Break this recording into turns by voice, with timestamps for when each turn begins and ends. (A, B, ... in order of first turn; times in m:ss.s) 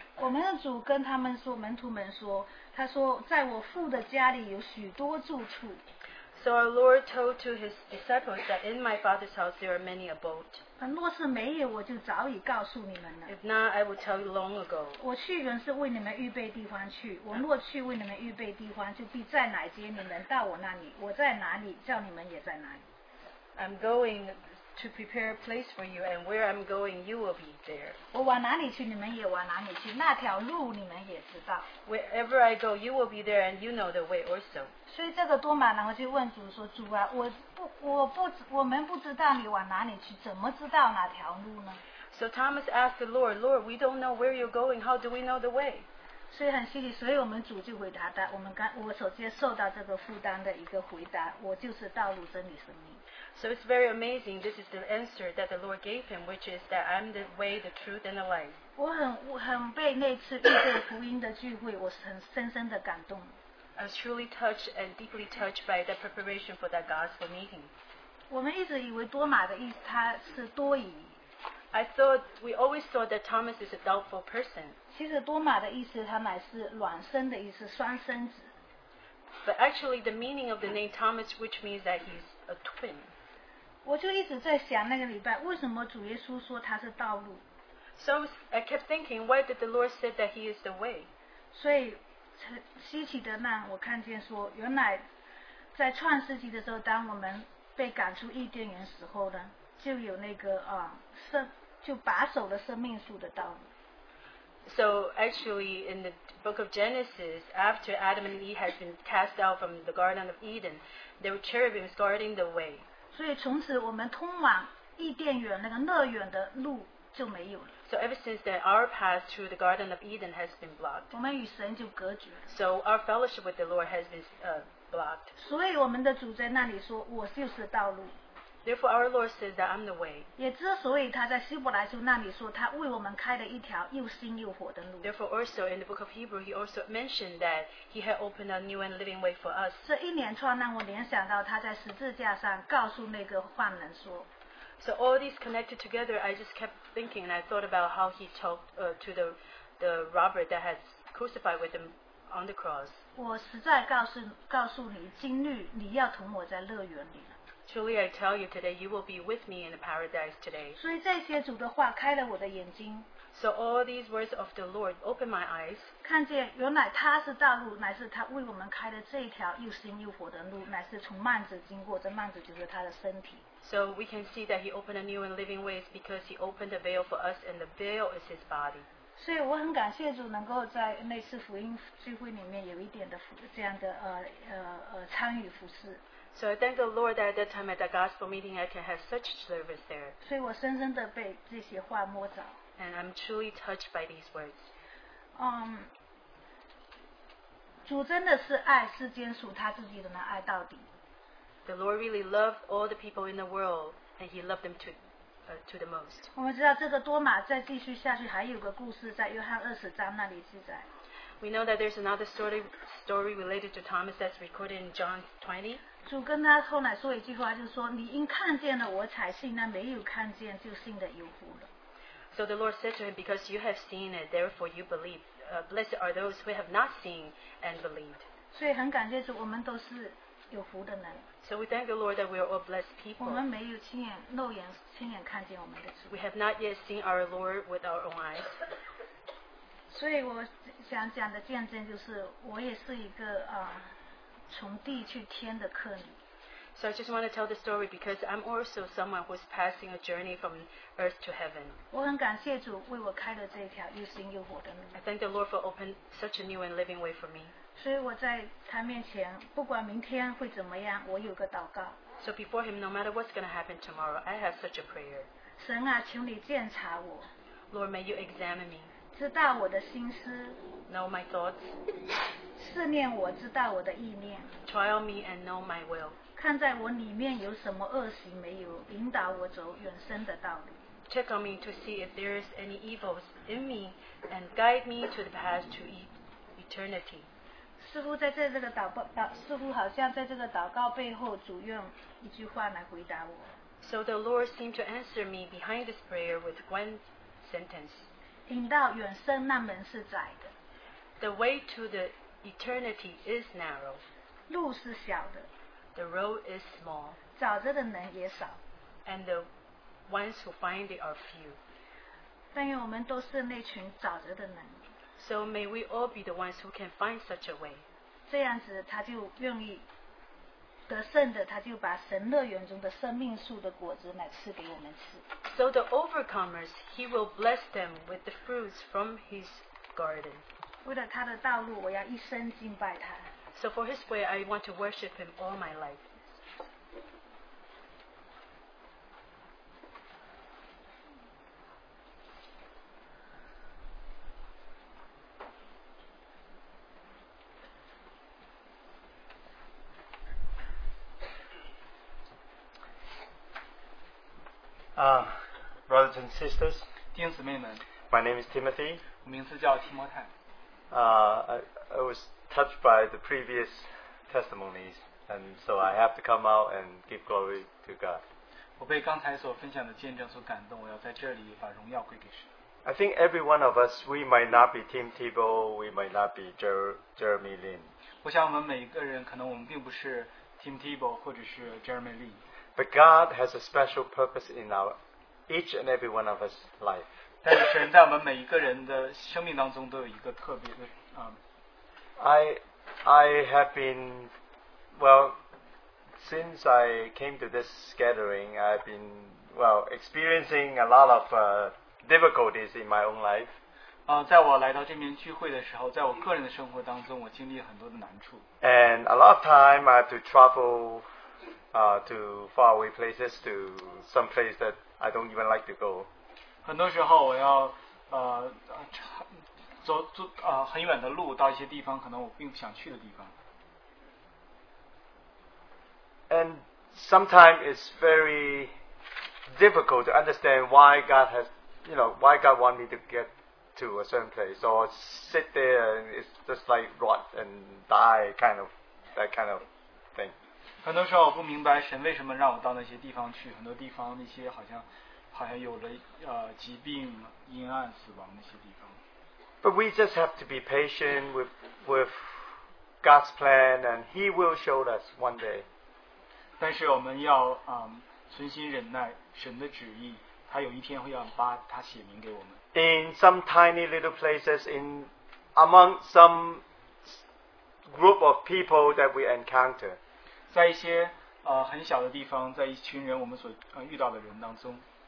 0:00.2-0:05.8 A
0:06.3-0:10.6 B
0:10.8-0:13.3 A
0:13.3-0:15.0 B
0:15.0-0:22.8 A
0:23.6-0:28.0 B
0:28.1-0:31.7 A
0:31.8-0:34.7 B
0:34.9-0:41.8 A
0:42.1-0:45.9 B
0:46.3-0:53.0 A
0:53.3-0:58.6 B
0:58.8-1:03.3 A
1:03.8-1:07.7 B
1:08.3-1:11.1 A
1:11.7-1:14.8 B
1:14.9-1:18.5 A
1:19.4-1:23.1 B
1:23.8-1:27.4 A
1:28.0-1:31.1 B
1:31.5-1:35.0 A
1:35.7-1:43.7 A
1:44.6-1:52.8 B
1:53.1-1:57.7 A
1:57.8-2:01.1 B
2:01.1-2:02.5 A
2:02.5-2:05.3 B
2:05.4-2:08.2 A
2:08.6-2:10.3 B
2:10.4-2:15.1 A
2:15.0-2:19.8 B
2:19.8-2:24.3 A
2:24.8-2:33.0 B
2:33.1-2:37.3 A
2:37.6-2:40.8 B
2:40.8-2:43.1 A
2:43.3-2:45.9 B
2:46.0-2:53.4 A
2:53.6-2:58.8 B
2:59.2-3:06.0 A
3:06.3-3:10.2 B
3:10.2-3:12.6 A
3:12.8-3:14.7 B
3:15.4-3:15.9 A
3:17.8-3:20.9 A
3:21.6-3:26.3 B
3:26.3-3:30.9 A
3:31.4-3:35.8 B
3:36.0-3:41.7 A
3:42.3-3:48.2 B
3:48.5-3:51.2 A
3:51.4-3:53.4 B
3:53.2-3:56.1 A
3:56.1-3:58.6 B
3:59.9-4:03.9 A
4:04.5-4:06.2 A
4:06.8-4:11.8 B
4:11.9-4:15.0 A
4:14.9-4:17.5 B
4:17.8-4:22.0 A
4:22.2-4:25.3 B
4:25.6-4:27.3 A
4:27.7-4:28.9 B
4:29.1-4:30.6 A
4:30.9-4:31.8 B
4:32.6-4:34.5 A
4:34.6-4:36.2 B
4:36.4-4:40.8 A
4:41.1-4:47.3 B
4:47.8-4:53.6 A
4:53.8-4:58.1 B
4:58.5-5:00.5 A
5:01.2-5:04.0 B
5:04.5-5:05.5 A
5:05.9-5:07.2 B
5:07.4-5:08.6 A
5:09.0-5:09.5 B
5:10.1-5:11.6 B
5:12.5-5:14.8 A
5:15.2-5:17.8 B
5:18.3-5:19.8 A
5:20.9-5:25.2 A
5:25.4-5:30.4 B
5:30.8-5:33.3 A
5:33.5-5:36.4 B
5:55.0-5:56.8 C
5:57.1-5:57.8 D
5:58.1-5:59.0 C
5:59.2-6:00.3 D
6:00.9-6:08.2 C
6:08.8-6:12.5 D
6:12.8-6:17.9 C
6:18.2-6:22.4 D
6:22.8-6:25.0 C
6:25.5-6:27.1 C
6:27.4-6:31.4 D
6:32.2-6:34.3 C
6:35.0-6:35.4 C
6:36.2-6:43.5 C
6:44.1-6:48.4 D
6:48.6-6:51.0 C
6:51.7-6:56.1 C
6:56.6-6:59.3 D
6:59.8-7:03.3 D
7:06.3-7:08.7 C
7:09.5-7:20.3 C
7:20.8-7:29.0 D
7:29.6-7:32.4 C
7:33.0-7:35.6 C
7:36.6-7:42.6 D
7:42.7-7:47.1 C
7:47.9-7:50.0 C
7:50.5-7:54.8 D